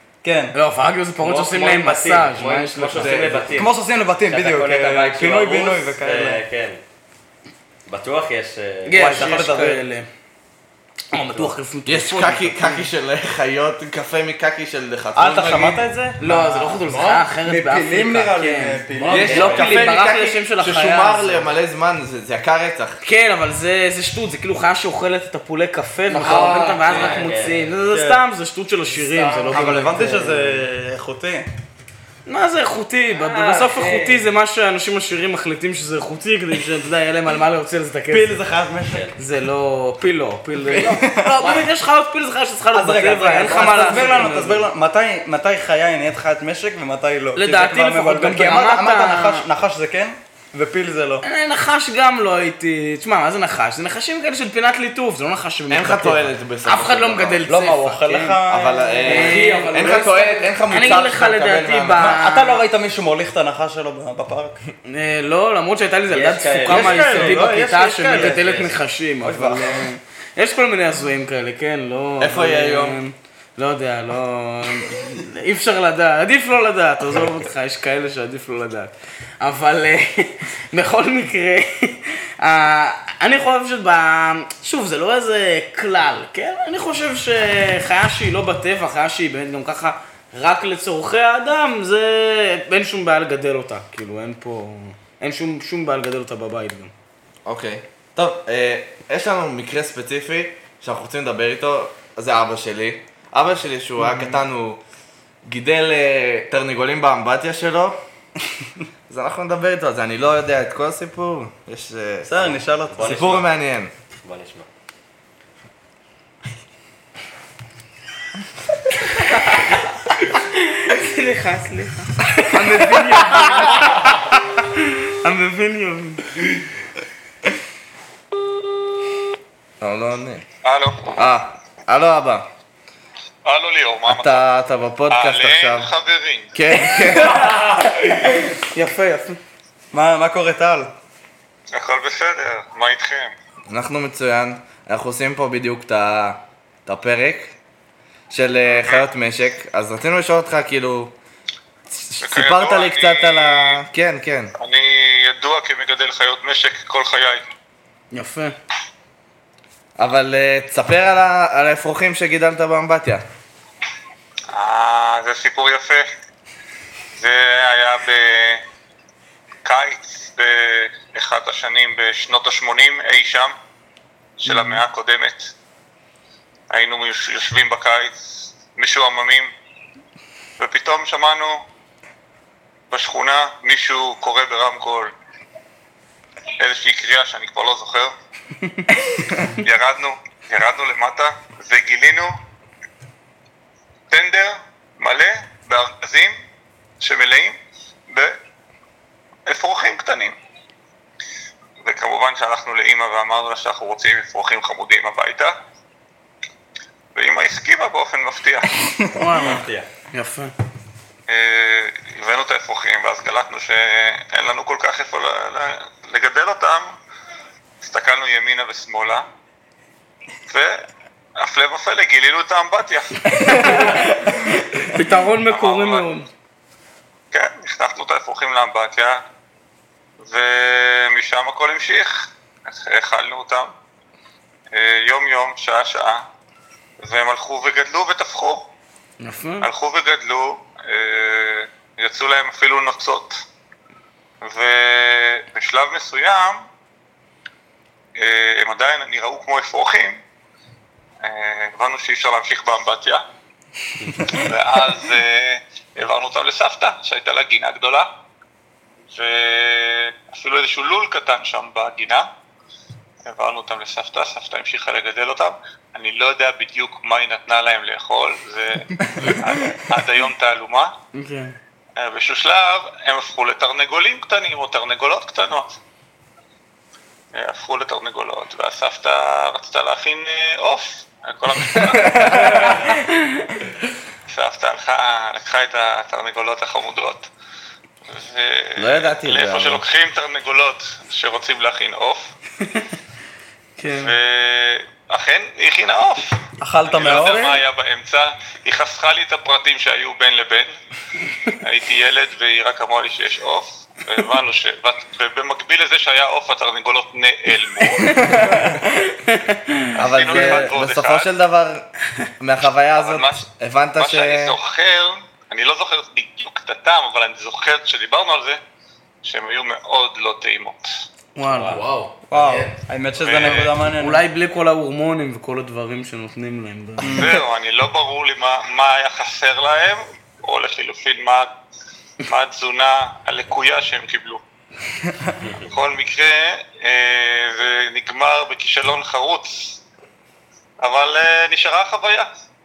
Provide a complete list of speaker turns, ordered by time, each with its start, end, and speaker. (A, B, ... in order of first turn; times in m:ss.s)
0:00.2-0:00.5 A
0:00.5-0:03.5 B
0:01.2-0:06.8 C
0:03.0-0:03.4 D
0:03.5-0:06.4 A
0:07.8-0:09.4 C
0:08.8-0:10.1 B
0:08.9-0:09.8 A
0:11.1-0:12.9 B
0:11.8-0:15.8 D
0:15.2-0:16.6 A
0:16.2-0:21.5 B
0:16.7-0:17.3 E
0:17.4-0:19.7 A
0:18.9-0:19.6 E
0:19.1-0:19.9 C
0:19.1-0:23.0 D
0:23.0-0:30.6 B
0:26.1-0:27.3 E
0:26.2-0:26.5 A
0:26.8-0:27.7 C
0:27.9-0:28.2 A
0:28.9-0:29.9 E
0:29.5-0:31.5 A
0:32.2-0:38.4 B
0:33.1-0:34.2 E
0:38.1-0:39.1 A
0:38.9-0:39.2 C
0:39.2-0:44.7 B
0:40.6-0:41.5 A
0:42.7-0:51.2 A
0:43.6-0:44.2 E
0:47.3-0:49.4 B
0:51.2-0:58.4 B
0:55.7-0:57.4 D
0:57.5-0:59.5 A
0:58.5-1:02.2 D
0:59.0-1:00.6 E
0:59.0-0:59.8 B
1:00.7-1:02.6 B
1:02.0-1:04.6 A
1:04.8-1:36.9 B
1:06.1-1:07.6 C
1:06.7-1:08.4 A
1:08.1-1:08.8 C
1:09.2-1:09.9 A
1:12.2-1:13.0 D
1:37.4-1:44.8 D
1:45.4-1:48.0 D
1:49.1-1:52.3 D
1:52.2-1:53.3 A
1:52.4-1:53.5 C
1:53.0-1:53.9 D
1:54.2-1:54.7 C
2:00.3-2:06.4 B
2:03.2-2:03.5 D
2:09.8-2:10.4 D
2:10.6-2:11.1 F
2:11.1-2:12.5 D
2:13.4-2:14.4 F
2:14.1-2:15.9 D
2:15.1-2:16.6 F
2:16.5-2:17.6 D
2:17.0-2:17.5 B
2:18.3-2:19.4 B
2:19.9-2:20.9 A
2:21.7-2:23.3 F
2:23.7-2:27.6 D
2:28.3-2:31.1 D
2:32.1-2:34.5 D
2:32.2-2:33.8 F
2:34.6-2:37.4 F
2:38.1-2:38.5 B
2:40.0-2:43.2 D
2:44.5-2:46.1 F
2:47.1-2:48.6 F
2:49.6-2:53.5 F
2:54.4-2:55.5 F
2:56.7-2:59.5 F
3:00.6-3:01.6 F
3:02.9-3:05.1 F
3:06.6-3:08.1 F
3:09.5-3:12.3 F
3:14.1-3:16.4 F
3:17.0-3:17.6 F
3:18.1-3:18.3 F
3:19.5-3:20.4 F
3:21.8-3:25.5 F
3:27.1-3:28.7 F
3:29.0-3:29.6 A
3:29.1-3:30.5 B
3:29.4-3:29.9 C
3:31.3-3:36.9 F
3:37.8-3:39.2 F
3:40.5-3:40.8 F
3:41.4-3:44.1 F
3:43.3-3:46.3 B
3:45.4-3:46.2 F
3:47.3-3:49.2 F
3:50.2-3:53.7 F
3:54.7-3:56.2 F
3:57.0-3:58.7 F
3:59.2-3:59.7 B
3:59.6-4:03.4 F
4:04.4-4:06.6 F
4:08.2-4:10.2 F
4:11.2-4:13.2 F
4:14.3-4:18.1 F
4:19.1-4:22.3 F
4:23.2-4:30.9 F
4:31.1-4:31.6 B
4:32.0-4:35.8 F
4:37.3-4:43.0 F
4:41.7-4:42.7 D
4:42.5-4:43.4 B
4:44.3-4:47.3 F
4:48.1-4:52.3 F
4:48.8-4:49.8 D
4:53.8-4:54.2 B
4:53.9-5:00.7 F
4:56.6-4:57.4 A
4:57.0-4:57.6 B
5:01.6-5:08.2 F
5:08.0-5:10.7 B
5:08.2-5:08.6 D
5:09.9-5:11.3 F
5:10.0-5:11.9 D
5:12.4-5:14.6 D
5:13.0-5:18.6 F
5:19.2-5:20.9 F
5:21.3-5:21.8 B
5:21.6-5:22.8 E
5:22.2-5:24.2 A
5:23.2-5:23.7 F
5:24.0-5:27.2 B
5:27.0-5:27.4 A
5:27.1-5:31.5 F
5:32.2-5:34.4 F
5:35.4-5:35.7 C
5:35.6-5:39.8 F
5:40.8-5:42.3 F